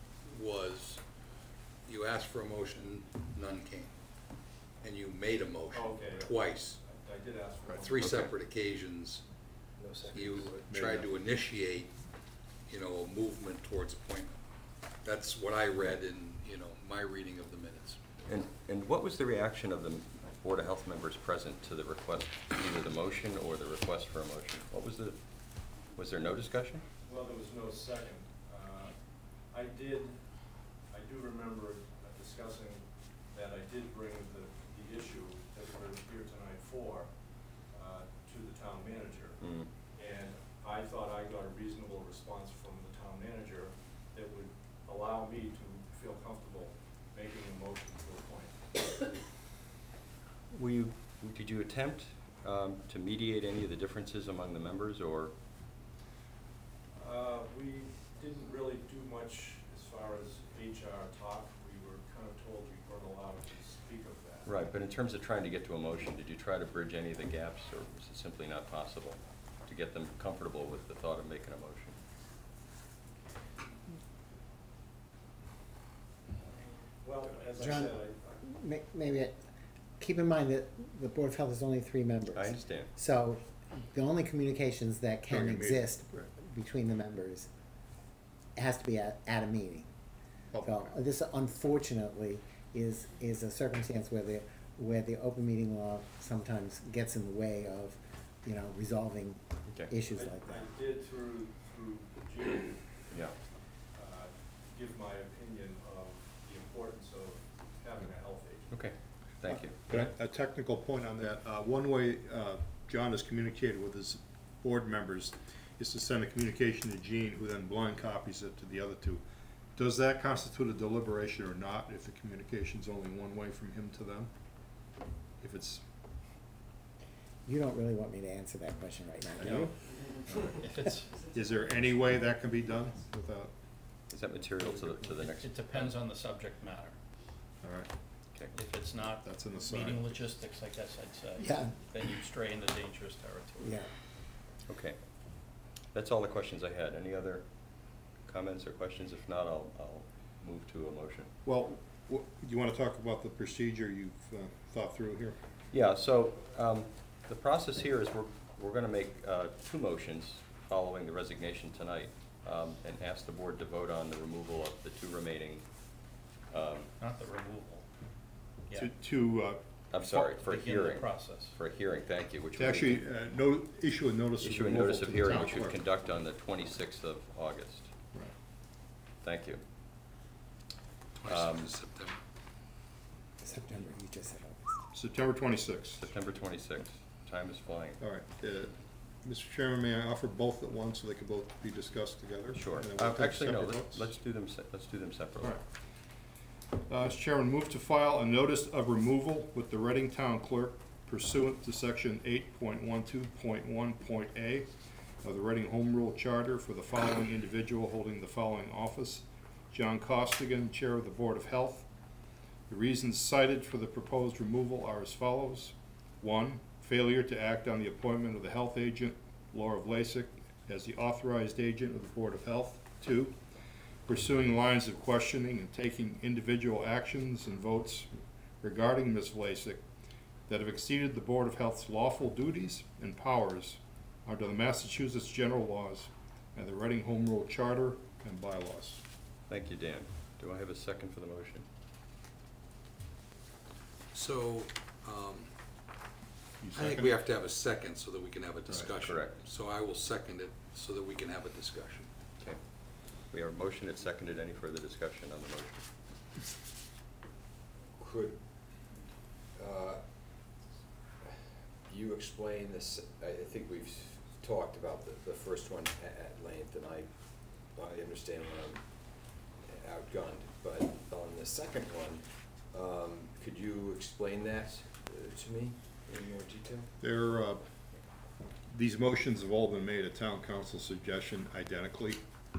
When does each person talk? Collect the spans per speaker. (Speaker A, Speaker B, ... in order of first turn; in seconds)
Speaker A: 1.9-3.9, 4.9-5.7, 6.3-6.7, 8.1-8.5, 10.1-11.9, 12.7-14.2, 15.1-18.0, 181.3-182.1, 244.2-245.4, 247.1-252.1
Speaker B: 5.7-8.2, 27.1-28.9, 29.5-30.2, 30.9-37.1, 37.7-39.4, 40.0-48.6, 57.0-64.5, 77.0-78.4, 100.1-103.0, 104.0-108.7
Speaker C: 8.0-8.3, 18.3-25.2, 25.9-26.8, 39.4-39.7, 50.5-55.3, 64.5-72.0, 82.3-82.9, 103.1-103.4, 108.7-110.1, 134.1-136.0, 144.7-145.0, 145.9-147.4, 148.3-151.3, 155.7-165.7, 166.5-166.9, 169.9-173.1, 174.4-177.9, 179.2-179.6, 181.2-181.7, 186.0-188.0, 192.5-195.6, 239.5-241.7, 249.0-249.3, 253.3-255.9
Speaker D: 9.8-10.6, 246.7-247.1, 258.0-258.4, 259.6-260.0, 261.2-267.1, 267.7-268.9, 269.6-276.9
Speaker E: 10.6-11.2, 85.3-86.3, 90.5-91.0, 109.9-119.2, 119.8-124.3, 125.4-125.8, 129.4-129.7, 130.3-130.5, 131.3-133.5, 134.6-135.1, 137.6-137.9, 139.2-140.3, 151.4-155.4, 168.7-170.3, 172.6-175.8, 184.9-186.1, 188.0-194.1, 196.9-204.7, 205.2-211.9, 212.7-223.4, 224.1-228.1, 228.6-229.8, 230.5-239.0, 246.6-247.2, 248.7-248.9, 277.0-277.6, 278.7-282.2
Speaker F: 77.6-79.4, 80.0-87.5, 88.6-89.9, 90.6-100.7, 127.5-129.8, 141.4-141.8, 143.6-143.9, 183.4-184.8
Speaker G: 130.6-131.2, 135.2-137.0, 138.5-143.8, 167.0-167.9, 170.3-171.6